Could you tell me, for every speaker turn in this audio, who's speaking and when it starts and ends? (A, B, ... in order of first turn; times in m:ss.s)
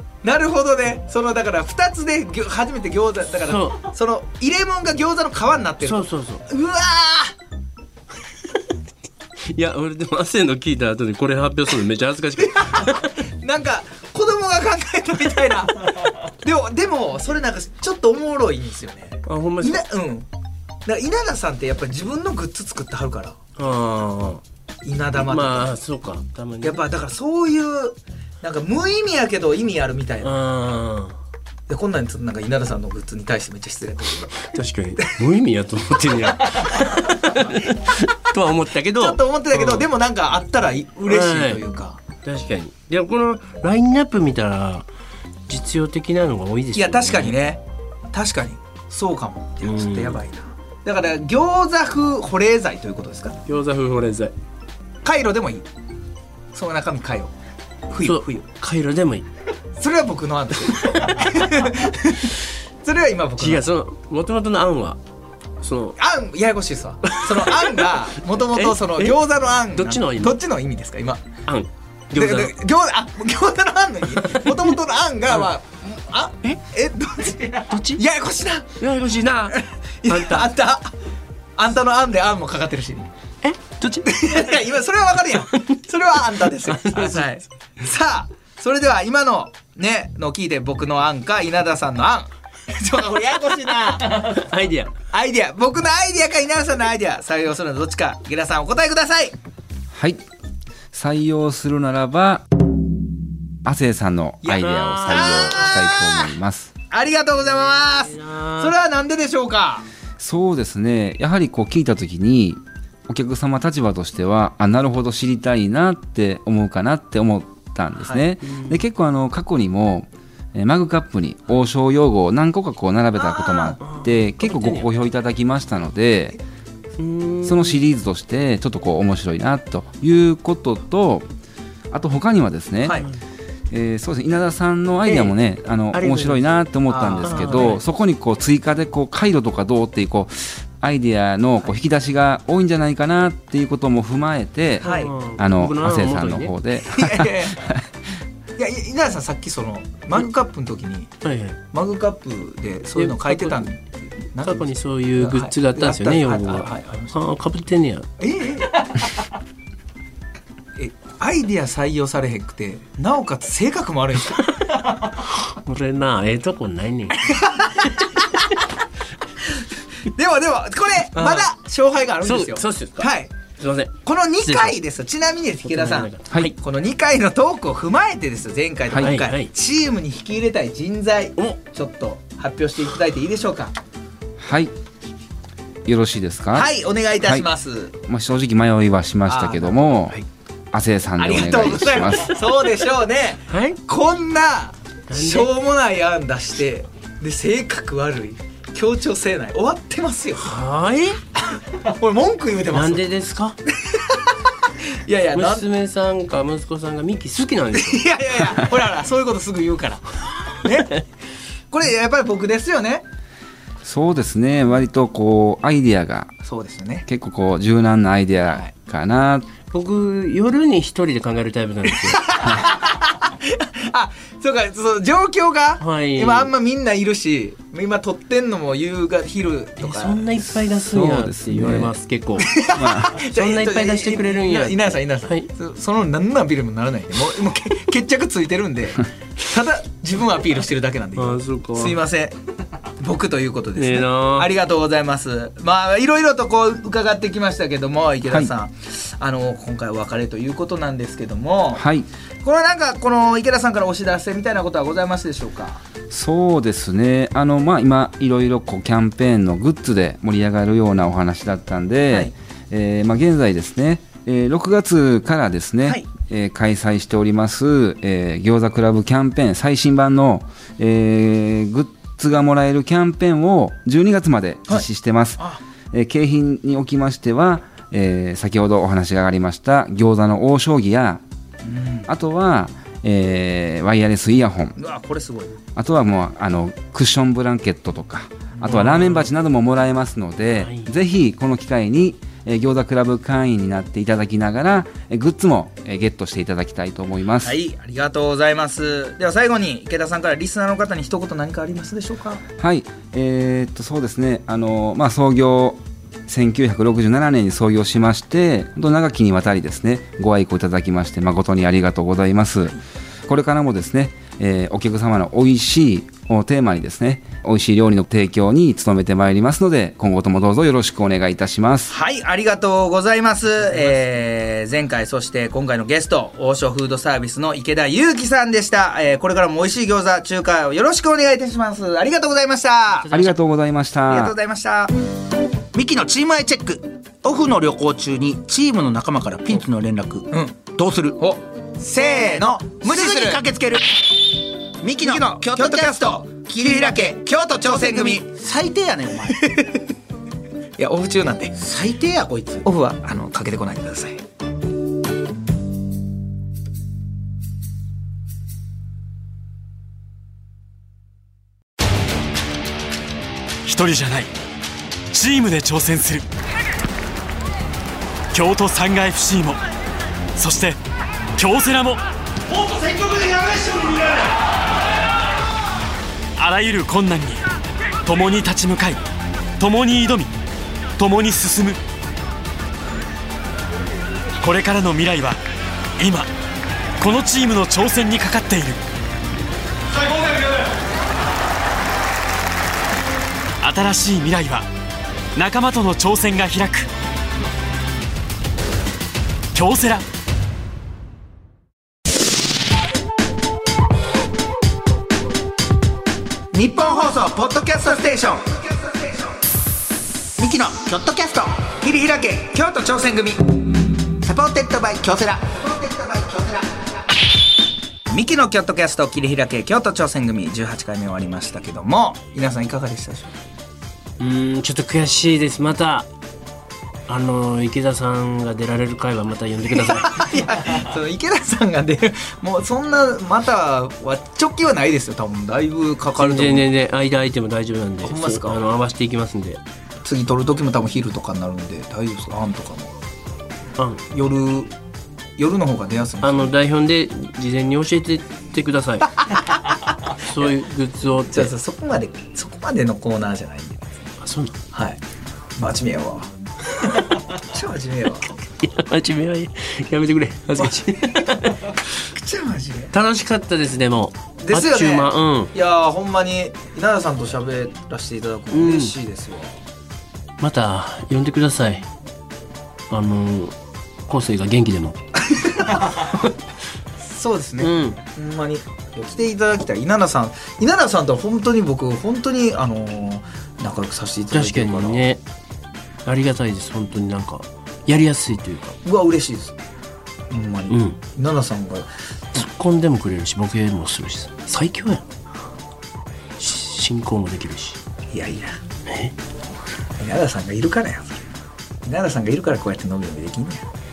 0:00.2-0:07.3 A
0:03.4-0:03.9 B
0:05.8-0:06.4 B
0:09.5-0:13.1 B
0:12.4-0:20.3 A
0:19.2-0:19.8 B
0:20.8-0:23.4 A
0:23.6-0:24.4 B
0:24.8-0:25.7 A
0:25.1-0:26.8 B
0:26.6-0:30.4 A
0:30.2-0:31.2 B
0:31.7-0:34.5 A
0:34.4-0:39.9 B
0:36.4-0:37.5 A
0:38.9-0:42.0 A
0:41.1-0:41.6 B
0:42.2-0:44.9 B
0:45.5-0:47.4 B
0:46.8-0:47.6 A
0:48.1-0:53.4 A
0:49.6-0:50.2 B
0:53.4-0:54.3 B
0:55.0-0:55.7 A
0:56.5-0:57.3 A
0:57.9-0:58.4 A
0:58.0-0:59.3 B
0:59.8-1:03.6 A
1:00.8-1:01.4 B
1:03.4-1:05.0 B
1:05.6-1:06.0 B
1:06.0-1:11.2 A
1:07.1-1:09.2 B
1:09.7-1:10.4 B
1:11.4-1:12.6 B
1:12.1-1:18.8 A
1:14.2-1:14.5 B
1:17.7-1:18.0 B
1:18.8-1:20.5 B
1:19.5-1:20.9 A
1:21.6-1:23.1 A
1:23.4-1:24.4 B
1:24.0-1:34.5 A
1:25.5-1:25.8 B
1:26.4-1:27.4 B
1:34.2-1:34.9 B
1:35.1-1:39.3 A
1:39.9-1:40.2 C
1:40.9-1:42.4 C
1:43.6-1:46.7 C
1:44.4-1:46.3 A
1:44.6-1:45.9 B
1:46.9-1:49.8 A
1:48.0-1:48.7 B
1:50.2-2:06.4 C
1:57.9-1:58.2 A
1:58.4-1:58.8 B
2:03.1-2:03.8 A
2:03.8-2:04.9 B
2:07.0-2:07.8 B
2:07.4-2:11.3 C
2:11.9-2:13.0 C
2:13.7-2:27.8 C
2:15.0-2:15.3 B
2:15.9-2:16.4 B
2:16.9-2:17.8 A
2:17.2-2:17.8 B
2:24.8-2:26.5 B
2:24.8-2:25.1 A
2:26.9-2:27.8 A
2:28.6-2:31.1 A
2:31.2-2:31.6 B
2:31.7-2:37.2 A
2:33.0-2:33.6 B
2:34.4-2:38.1 B
2:38.2-2:39.1 A
2:40.8-2:45.1 A
2:45.3-2:48.2 B
2:47.2-2:48.3 A
2:50.0-2:53.3 A
2:51.1-2:51.5 B
2:52.2-2:54.8 B
2:54.0-3:03.7 A
2:55.6-2:56.6 B
2:59.0-2:59.5 B
3:04.4-3:04.7 C
3:05.8-3:06.7 C
3:06.5-3:07.9 A
3:07.2-3:07.4 C
3:08.1-3:10.2 C
3:09.3-3:09.8 A
3:10.7-3:12.4 C
3:11.2-3:20.6 A
3:13.5-3:13.8 B
3:15.1-3:15.5 B
3:20.4-3:21.2 B
3:21.4-3:23.0 A
3:22.7-3:23.6 B
3:23.8-3:25.6 A
3:25.3-3:28.0 B
3:27.7-3:31.0 A
3:31.7-3:33.0 A
3:33.8-3:36.3 C
3:36.4-3:37.0 A
3:37.0-3:39.5 C
3:39.7-3:42.3 B
3:42.1-3:50.2 A
3:45.8-3:46.5 B
3:49.8-3:52.6 B
3:50.4-3:51.9 C
3:52.4-4:02.4 A
3:52.8-3:53.1 C
3:53.1-3:55.5 B
4:01.2-4:02.0 B
4:03.0-4:11.8 A
4:03.8-4:04.5 B
4:08.3-4:08.5 C
4:11.7-4:12.1 C
4:12.4-4:15.8 A
4:16.1-4:35.4 C
4:34.7-4:35.6 A
4:35.9-4:41.2 C
4:41.6-4:42.1 A
4:42.1-4:44.8 C
4:44.8-4:45.6 A
4:45.8-4:57.6 C
4:48.5-4:48.9 A
4:48.6-4:49.3 B
4:50.5-4:50.9 B
4:57.4-5:02.4 A
5:02.6-5:21.9 C
5:21.9-5:33.1 A
5:23.5-5:24.0 B
5:33.0-5:33.3 B
5:33.1-5:34.4 C
5:34.1-5:34.9 A
5:35.7-5:41.2 D
5:40.3-5:40.6 A
5:41.2-5:43.4 A
5:42.0-5:43.9 D
5:44.8-5:49.4 D
5:45.0-5:48.2 A
5:49.3-5:49.8 A
5:50.8-5:51.6 A
5:51.6-5:52.6 D
5:52.6-5:54.2 A
6:03.6-6:04.3 E
6:05.1-6:06.2 E
6:08.3-6:09.6 E
6:10.3-6:10.8 E
6:11.4-6:14.4 E
6:16.4-6:17.4 E
6:18.0-6:19.0 E
6:19.6-6:20.3 E
6:21.0-6:21.8 E
6:24.4-6:25.4 E
6:26.0-6:26.3 E
6:27.0-6:28.8 E
6:29.9-6:30.7 E
6:33.6-6:34.7 E
6:35.3-6:36.9 E
6:39.5-6:40.0 E
6:46.5-6:49.3 D
6:50.4-6:53.3 D
6:52.6-6:53.0 A
6:54.2-6:56.9 D
6:58.1-7:03.3 A
7:04.2-7:06.1 B
7:07.1-7:10.3 B
7:10.0-7:16.7 A
7:16.1-7:19.6 B
7:18.0-7:18.6 A
7:20.0-7:22.9 A
7:24.1-7:24.7 A
7:25.4-7:26.5 A
7:26.2-7:29.1 B
7:29.3-7:29.8 A
7:30.2-7:31.5 B
7:31.3-7:34.0 A
7:34.2-7:34.6 B
7:34.7-7:35.0 A
7:35.6-7:36.3 A
7:36.8-7:38.4 A
7:38.5-7:41.8 B
7:40.6-7:41.4 A
7:42.1-7:42.9 A
7:42.9-7:45.5 B
7:44.4-7:49.6 A
7:48.5-7:48.9 B
7:50.4-7:51.9 B
7:52.9-7:53.5 B
7:54.1-7:55.0 B
7:55.3-7:56.2 A
7:55.8-7:56.3 B
7:57.0-8:05.0 A
7:57.6-7:58.0 B
8:04.3-8:05.2 B
8:06.0-8:08.8 B
8:08.8-8:09.6 A
8:10.3-8:11.9 A
8:10.7-8:11.0 B
8:12.3-8:15.0 B
8:16.4-8:17.8 B
8:18.1-8:18.6 A
8:18.9-8:19.1 B
8:20.0-8:21.2 A
8:21.8-8:23.6 A